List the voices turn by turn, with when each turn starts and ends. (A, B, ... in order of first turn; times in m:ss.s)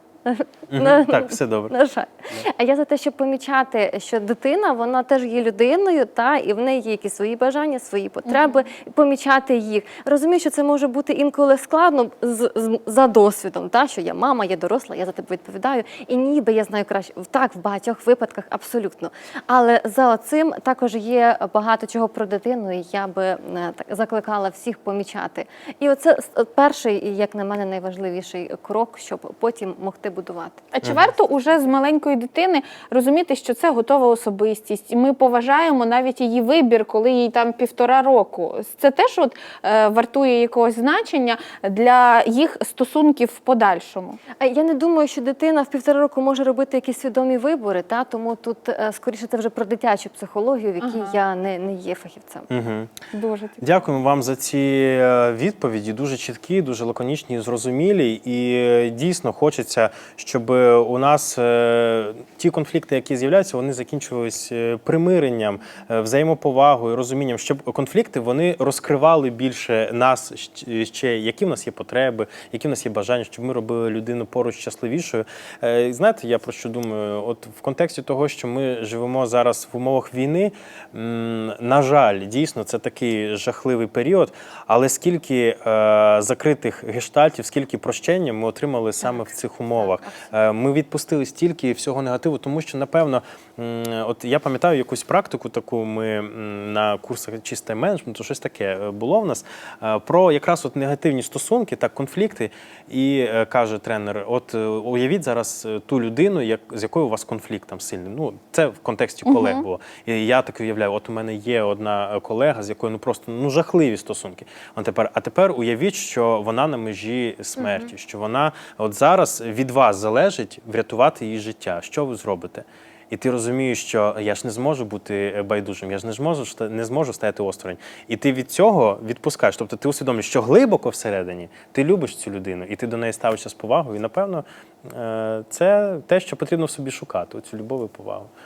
0:00.3-0:30.7 A
0:00.7-0:01.7 B
0:30.7-0:44.2 C
0:44.4-0:52.5 A
0:50.8-0:51.2 C
0:52.5-0:53.0 B
0:53.1-0:53.7 C
0:53.6-2:18.3 B
1:29.0-1:30.2 A
1:49.3-1:49.6 C